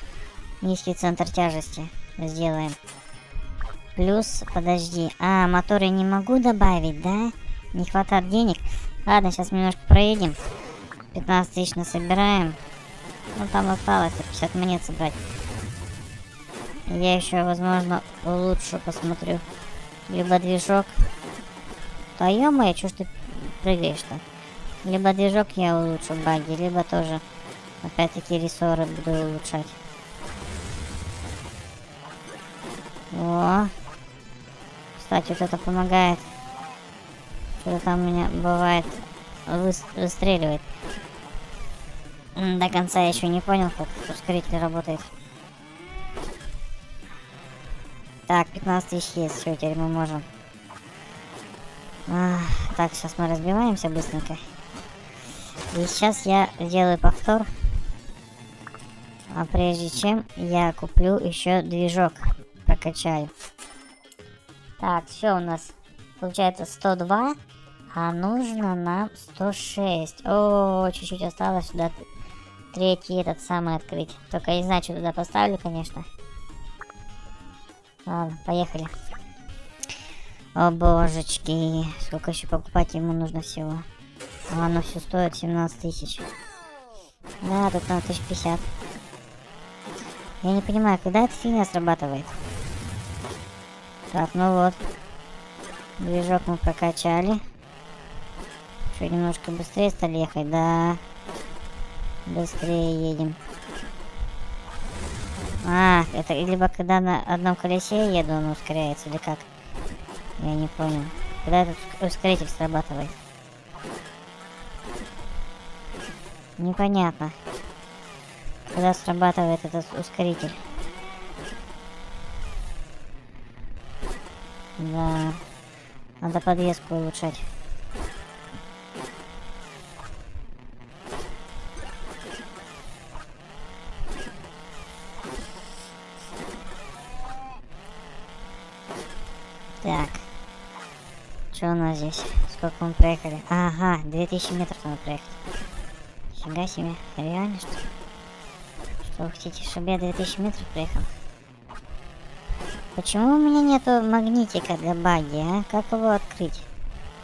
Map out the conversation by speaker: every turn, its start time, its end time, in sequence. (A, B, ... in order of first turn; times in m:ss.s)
0:00.6-0:02.8 A
0:04.0-0:10.4 A
0:11.1-0:12.6 A
0:13.4-0:15.2 A
0:16.9-0:19.4 A
0:20.1-0:21.0 A
0:22.2-0:24.2 A
0:24.8-0:27.2 A
0:27.8-0:29.8 A
0:33.1-0:33.7 A
0:35.0-0:36.3 A
0:37.6-0:40.7 A
0:42.4-0:45.1 A
0:48.3-0:50.3 A
0:52.1-0:54.4 A
0:55.7-0:57.5 A
0:59.3-1:03.3 A
1:04.8-1:07.4 A
1:07.9-1:12.1 A
1:12.7-1:16.1 A
1:18.1-1:18.9 A
1:20.6-1:23.8 A
1:24.5-1:26.3 A
1:27.4-1:28.6 A
1:30.4-1:32.4 A
1:34.1-1:34.8 A
1:36.0-1:37.4 A
1:38.9-1:41.0 A
1:42.3-1:43.4 A
1:45.6-1:49.5 A
1:50.4-1:53.2 A
1:56.6-1:57.4 A
1:58.7-2:00.6 A
2:04.8-2:05.4 A
2:06.2-2:07.5 A
2:19.8-2:20.3 A
2:21.5-2:25.4 A
2:26.3-2:27.8 A
2:29.0-2:31.1 A
2:33.0-2:36.7 A